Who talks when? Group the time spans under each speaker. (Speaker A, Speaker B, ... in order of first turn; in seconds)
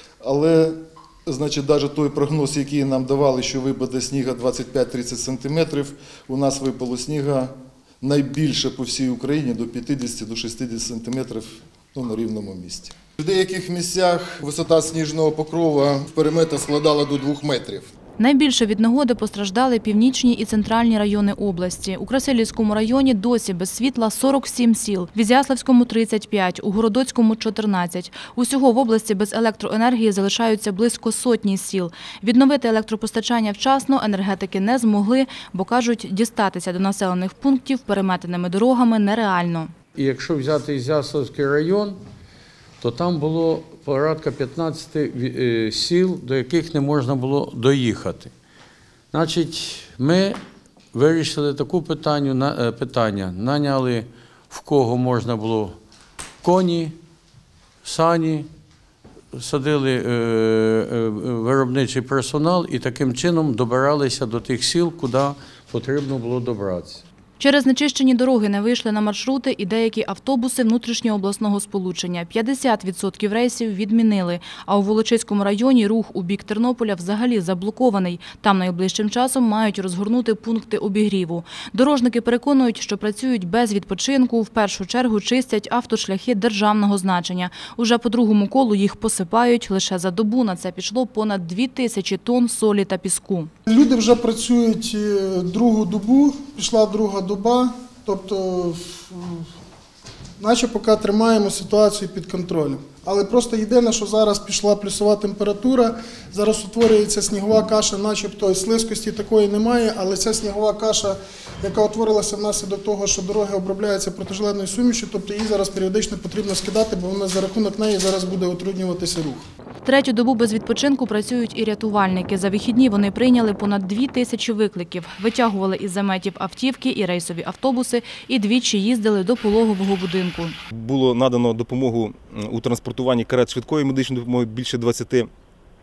Speaker A: 0.2-17.9
Speaker B: 18.2-39.7, 67.4-93.5, 119.8-130.6
Speaker C: 40.0-42.0, 42.8-48.3, 49.1-50.4, 50.9-55.8, 56.4-57.0, 57.8-58.5, 59.3-67.0
Speaker D: 93.7-99.5, 100.4-119.4
Speaker E: 130.7-135.3